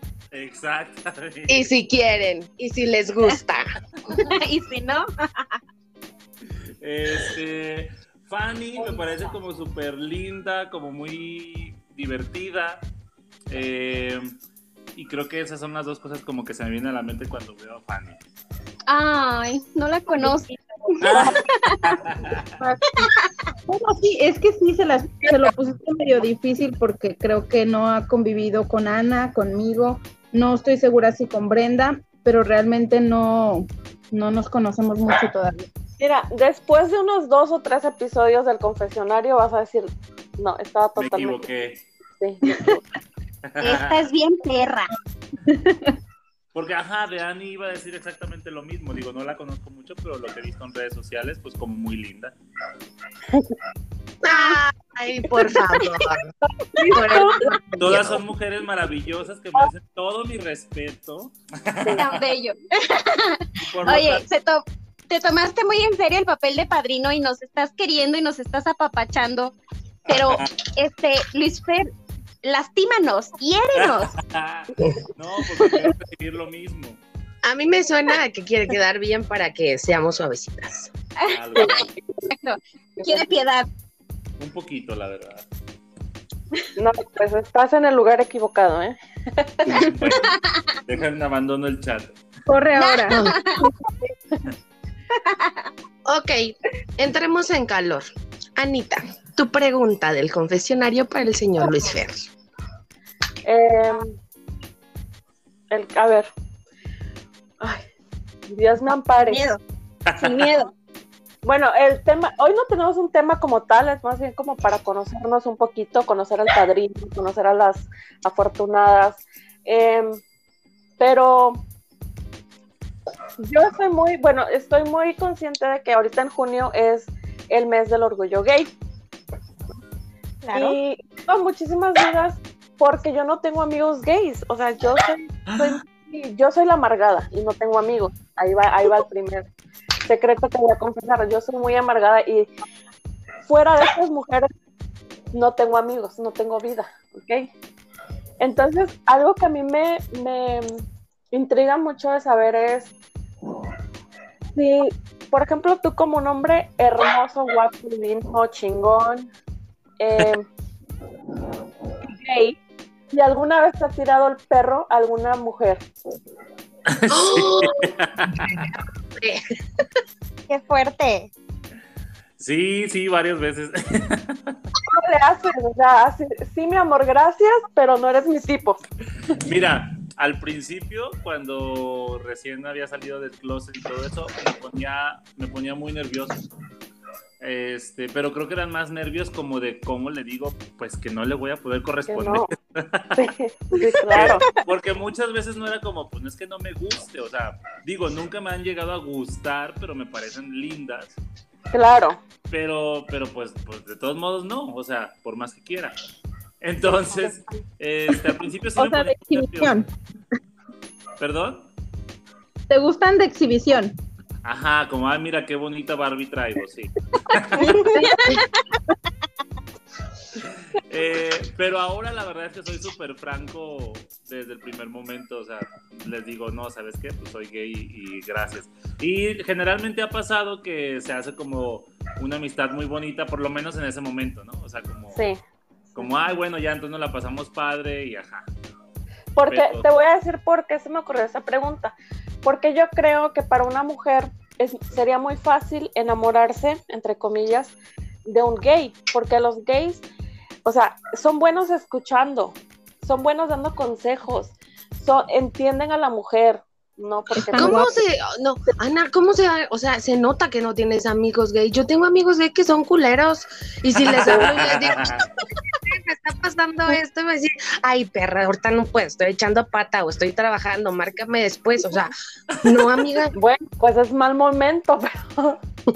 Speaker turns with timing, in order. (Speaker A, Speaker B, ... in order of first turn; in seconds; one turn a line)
Speaker A: 0.3-1.7
Speaker B: 1.5-3.7
Speaker C: 4.1-5.6
Speaker A: 6.4-12.9
Speaker A: 13.5-14.3
Speaker A: 14.9-18.2
Speaker C: 18.9-22.0
Speaker A: 21.0-22.5
Speaker D: 21.1-21.4
Speaker E: 22.6-23.0
Speaker C: 23.0-23.3
Speaker E: 23.7-35.7
Speaker D: 36.0-41.5
Speaker A: 41.0-41.8
Speaker D: 42.2-42.8
Speaker A: 43.5-44.0
Speaker C: 43.6-44.9
Speaker E: 45.5-45.9
Speaker A: 46.5-52.3
Speaker B: 54.2-56.3
Speaker C: 54.3-54.6
Speaker C: 55.8-56.2
Speaker D: 56.7-57.5
Speaker B: 56.9-58.2
Speaker A: 57.8-62.2
Speaker C: 61.9-69.6
Speaker A: 63.6-64.2
Speaker A: 70.1-70.6
Speaker C: 70.1-71.9
Speaker C: 72.4-74.2
Speaker A: 73.8-77.0
Speaker B: 77.4-80.9
Speaker C: 81.2-83.7
Speaker A: 81.2-81.9
Speaker A: 84.4-85.5
Speaker D: 86.8-89.7
Speaker A: 89.7-92.2
Speaker C: 90.1-90.6
Speaker E: 92.5-93.6
Speaker C: 92.8-93.6
Speaker B: 93.1-93.3
Speaker C: 95.1-95.7
Speaker B: 96.1-102.2
Speaker D: 103.4-104.2
Speaker D: 105.7-106.3
Speaker D: 108.5-109.4
Speaker C: 109.3-109.6
Speaker A: 110.1-110.5
Speaker C: 110.2-110.7
Speaker D: 111.4-120.2
Speaker D: 121.0-121.6
Speaker D: 123.4-128.7
Speaker C: 130.4-130.8
Speaker D: 130.5-139.5
Speaker A: 135.5-135.7
Speaker D: 140.1-142.5
Speaker D: 143.4-144.5
Speaker D: 145.3-147.5
Speaker D: 148.4-152.9
Speaker D: 154.6-159.3
Speaker D: 160.0-160.5
Speaker D: 162.0-162.6
Speaker D: 163.1-165.8
Speaker A: 166.9-168.7
Speaker B: 167.1-169.4
Speaker C: 170.5-171.3
Speaker A: 172.4-174.6
Speaker D: 174.9-178.8
Speaker A: 179.3-186.5
Speaker A: 187.4-193.2
Speaker D: 192.1-192.5
Speaker D: 193.2-194.5
Speaker A: 194.1-201.2
Speaker D: 201.7-202.2
Speaker A: 202.5-206.0
Speaker A: 206.6-209.8
Speaker E: 208.8-209.9
Speaker A: 211.2-211.7
Speaker E: 212.7-214.0
Speaker A: 214.4-217.9
Speaker C: 217.6-218.5
Speaker E: 217.7-218.4
Speaker A: 220.4-235.2
Speaker D: 235.1-235.4
Speaker A: 235.9-238.5
Speaker D: 239.3-250.0
Speaker A: 239.5-239.9
Speaker D: 250.6-257.9
Speaker E: 257.4-257.9
Speaker B: 257.5-265.2
Speaker A: 264.0-265.2
Speaker D: 264.3-264.6
Speaker B: 265.8-273.3
Speaker A: 272.5-272.9
Speaker D: 273.4-275.6